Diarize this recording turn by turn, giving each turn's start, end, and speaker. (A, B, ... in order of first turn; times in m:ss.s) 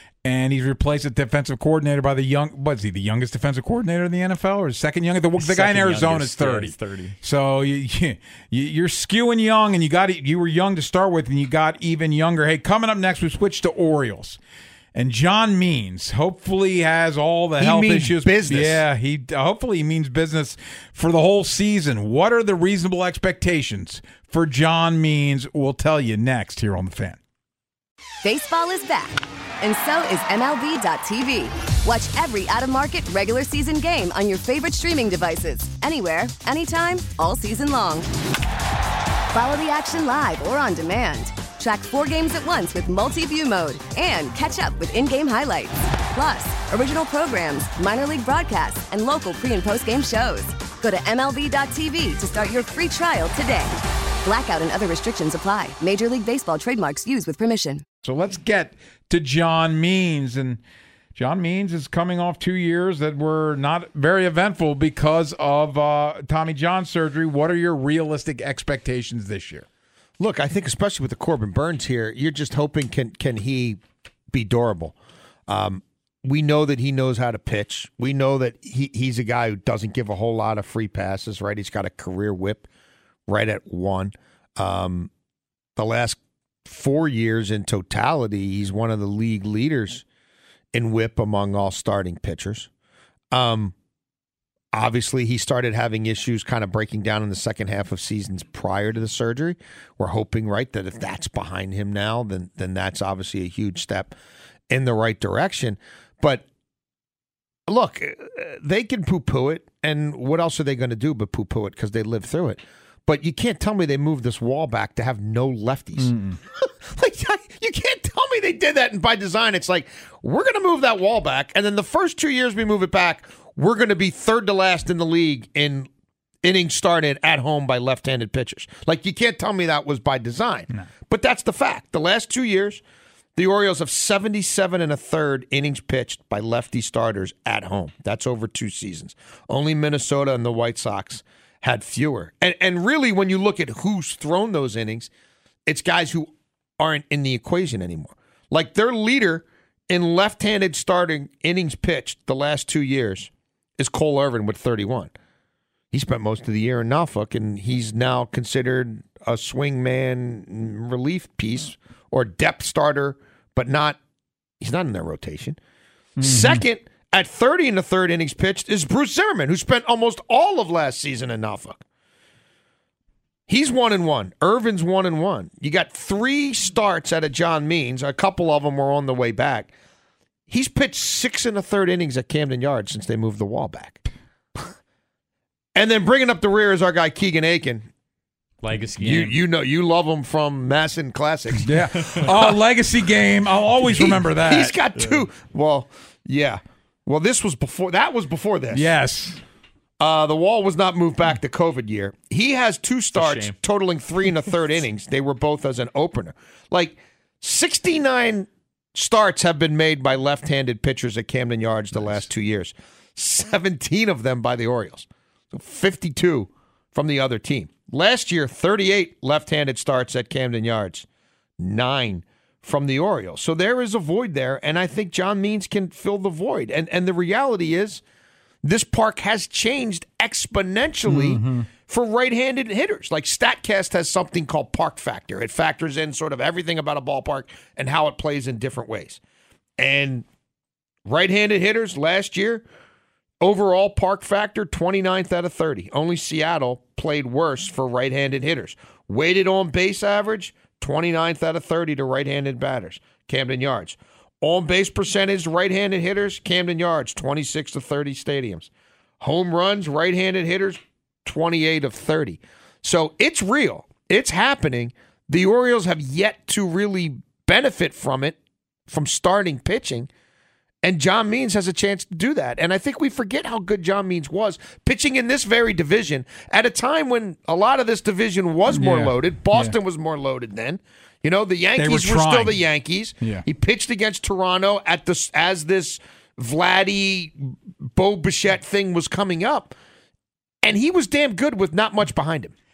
0:00.2-0:14.4 A
0:05.4-0:07.2 B
0:14.9-0:27.2 A
0:17.6-0:18.8 C
0:28.2-0:38.1 D
0:39.3-0:53.7 D
0:54.2-0:57.8 D
0:58.0-1:00.6 A
1:01.1-1:09.6 A
1:10.2-1:13.8 C
1:14.3-1:15.0 C
1:15.5-1:22.7 C
1:23.3-1:25.1 C
1:25.8-1:30.0 C
1:30.7-1:32.7 C
1:33.3-1:33.7 C
1:34.7-1:44.1 C
1:44.7-1:46.4 C
1:47.7-2:05.9 C
1:56.0-1:56.4 A
2:06.4-2:12.8 C
2:13.4-2:25.1 C
2:25.6-2:35.1 C
2:35.9-2:44.0 C
2:44.6-2:45.6 C
2:46.2-2:51.8 C
2:46.2-2:46.6 A
2:53.5-2:59.7 C
3:00.5-3:04.0 C
3:05.7-3:07.9 C
3:08.6-3:09.4 B
3:09.0-3:12.4 C
3:11.6-3:14.7 A
3:13.8-3:18.9 C
3:18.7-3:19.4 A
3:20.0-3:41.1 C
3:23.1-3:23.6 B
3:41.6-3:48.0 C
3:48.6-3:59.2 C
3:51.1-3:51.7 A
3:59.8-4:00.2 C
4:01.0-4:02.6 C
4:03.4-4:18.7 C
4:19.2-4:30.1 C
4:30.8-4:49.7 C
4:38.7-4:39.7 A
4:41.8-4:42.6 A
4:50.6-4:52.5 C